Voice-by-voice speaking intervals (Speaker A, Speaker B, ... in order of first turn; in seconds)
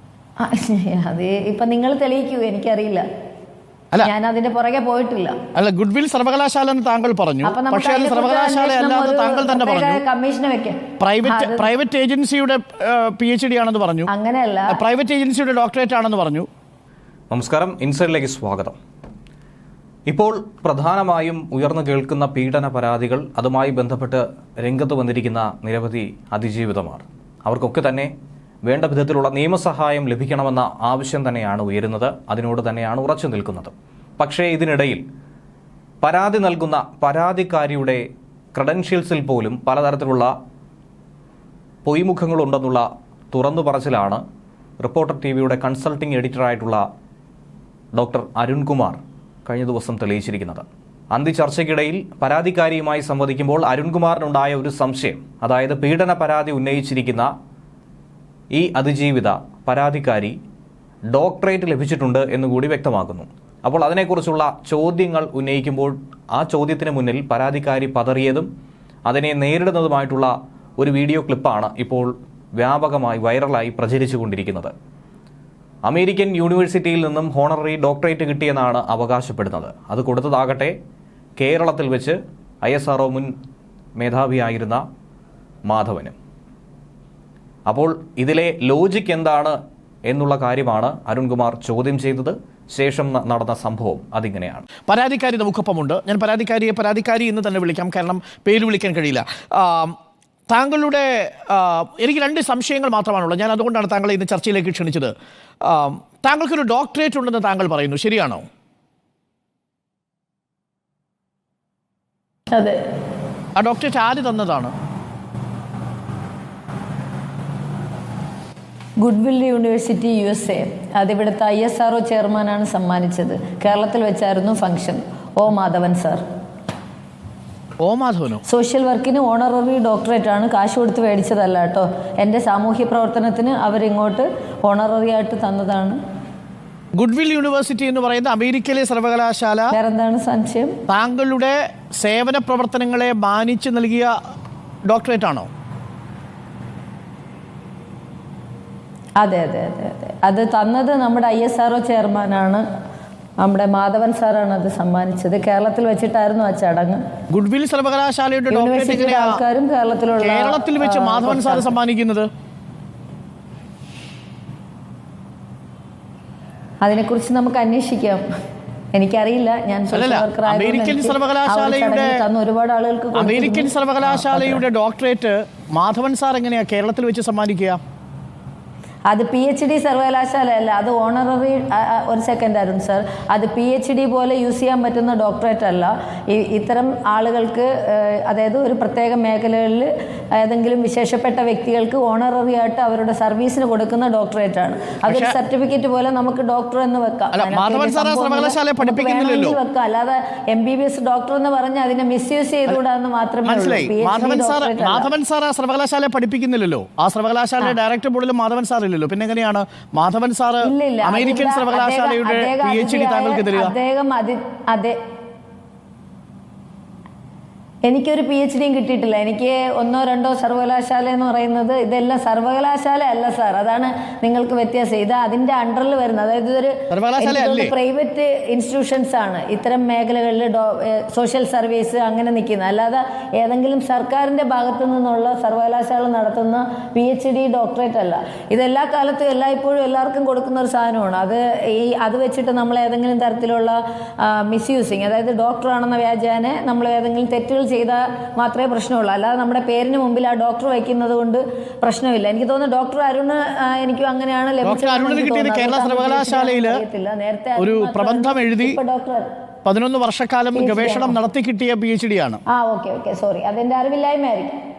Speaker A: 0.4-3.0, 4.0-5.4, 7.4-11.7, 14.1-14.8, 112.5-112.8, 119.0-126.2, 128.5-136.0, 139.7-140.8, 149.2-152.6, 153.4-157.0, 158.5-161.7, 166.8-168.2, 168.9-174.6, 179.1-205.1, 210.6-215.0, 217.9-259.3, 260.5-261.2, 262.5-264.6
Speaker B: 5.5-10.0, 11.0-14.1, 14.7-16.5, 94.9-100.0, 100.5-105.1, 105.7-108.4, 113.6-114.7, 127.8-128.4, 136.9-139.7, 140.9-144.1, 144.9-145.5, 157.3-159.4, 160.2-162.3, 169.9-172.2, 173.2-177.8, 195.1-195.4, 197.3-199.6, 203.4-213.7, 226.9-227.7, 254.6-256.8, 257.6-258.8, 259.7-262.4
Speaker C: 17.3-18.8, 20.1-28.1, 28.7-35.0, 36.0-38.0, 38.5-40.3, 41.9-44.2, 44.8-46.8, 47.9-57.3, 58.5-60.4, 61.1-68.5, 69.1-74.7, 75.9-80.8, 81.4-83.3, 84.0-84.8, 85.7-86.2, 87.7-94.7